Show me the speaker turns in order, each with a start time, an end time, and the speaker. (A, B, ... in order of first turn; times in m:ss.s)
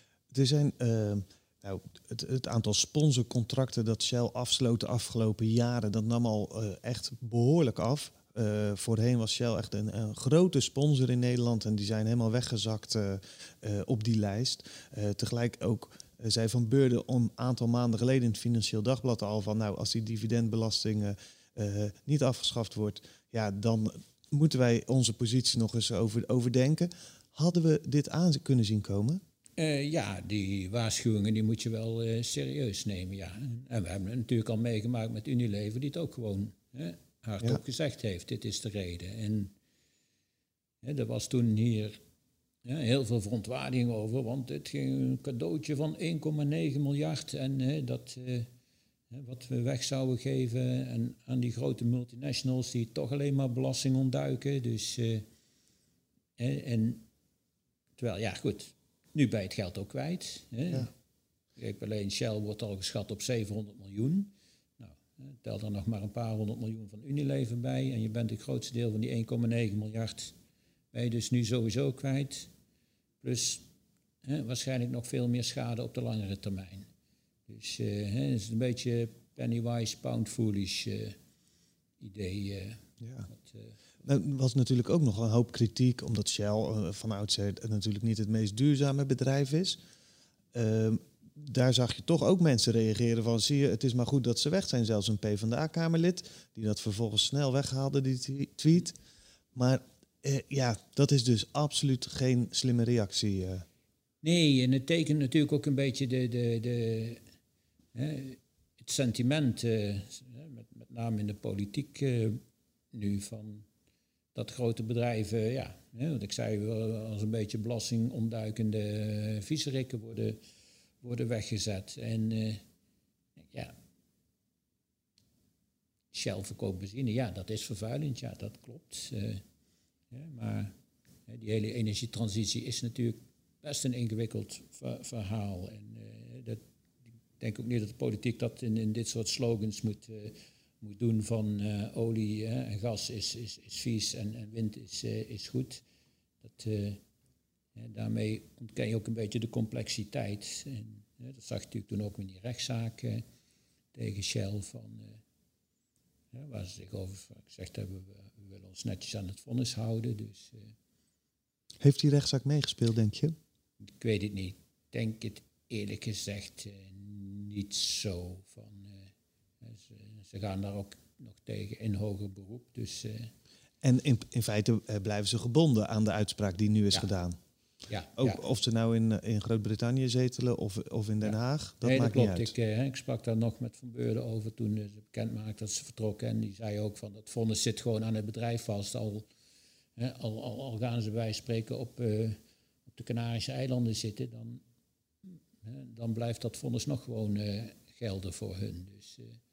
0:00.3-0:29.2 A
0:29.6-0:39.5 B
0:40.8-0:42.0 B
0:42.6-0:48.5 B
0:49.1-0:55.2 B
0:56.4-0:57.0 B
0:58.0-1:00.9 B
1:01.6-1:10.3 B
1:10.9-1:12.5 B
1:13.2-1:13.6 B
1:14.2-1:16.9 B
1:17.5-1:21.2 B
1:22.0-1:23.7 B
1:23.0-1:23.3 A
1:24.0-1:29.8 A
1:30.5-1:39.0 A
1:39.5-1:43.6 A
1:44.2-1:47.2 B
1:47.9-1:52.4 B
1:52.9-1:53.6 B
1:54.3-2:00.4 B
2:01.0-2:02.6 B
2:06.1-2:09.4 B
2:10.1-2:10.7 B
2:11.3-2:16.6 B
2:17.4-2:25.8 B
2:26.4-2:27.0 B
2:27.8-2:33.2 B
2:33.9-2:35.2 B
2:36.3-2:40.7 B
2:41.8-2:43.3 A
2:43.9-2:49.1 B
2:49.6-2:53.3 B
2:53.8-2:57.4 A
2:57.9-2:58.4 B
2:58.2-3:02.5 A
3:01.2-3:09.3 B
3:10.0-3:12.4 B
3:12.9-3:14.6 B
3:15.3-3:19.4 B